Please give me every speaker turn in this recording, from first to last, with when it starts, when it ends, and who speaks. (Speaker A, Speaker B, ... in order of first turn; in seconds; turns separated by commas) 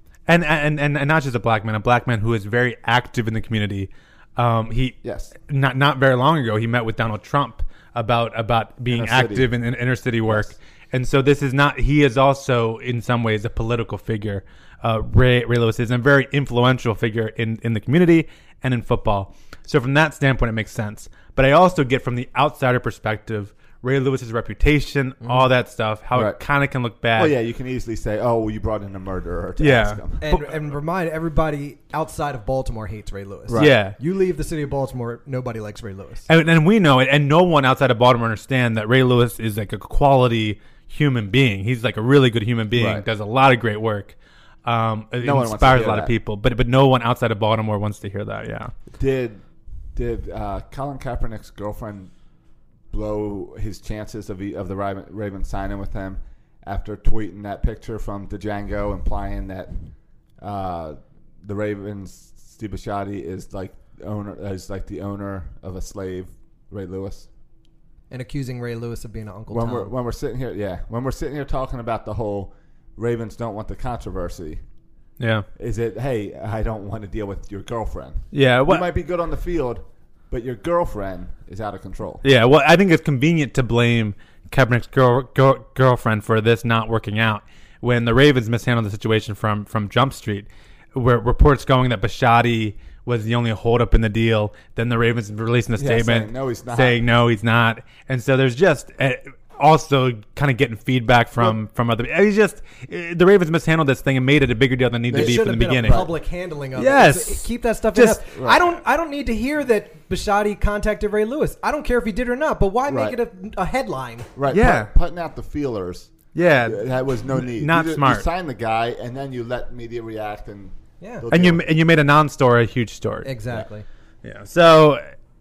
Speaker A: 0.3-27.3, Speaker B: 5.0-5.3, Speaker B: 8.9-9.5, Speaker B: 10.3-10.5, Speaker B: 26.1-26.4, Speaker B: 27.1-30.2, Speaker A: 29.6-30.5, Speaker C: 30.2-36.3, Speaker B: 33.5-33.8, Speaker A: 33.5-34.0, Speaker A: 36.3-48.7, Speaker B: 42.7-43.0, Speaker B: 45.2-46.1, Speaker B: 48.9-49.4, Speaker B: 49.9-52.1, Speaker B: 52.9-59.8, Speaker B: 60.4-67.3, Speaker C: 68.1-69.9, Speaker B: 69.5-74.6, Speaker A: 75.2-75.5, Speaker B: 75.5-82.2, Speaker A: 78.3-78.9, Speaker A: 82.2-106.0, Speaker B: 95.8-97.0, Speaker B: 105.1-106.1, Speaker C: 105.1-114.3, Speaker A: 106.8-108.2, Speaker B: 108.3-108.6, Speaker B: 112.9-113.2, Speaker B: 114.3-121.6, Speaker A: 114.5-114.9, Speaker A: 116.3-118.3, Speaker A: 121.3-123.3, Speaker C: 123.2-123.8, Speaker A: 124.2-125.0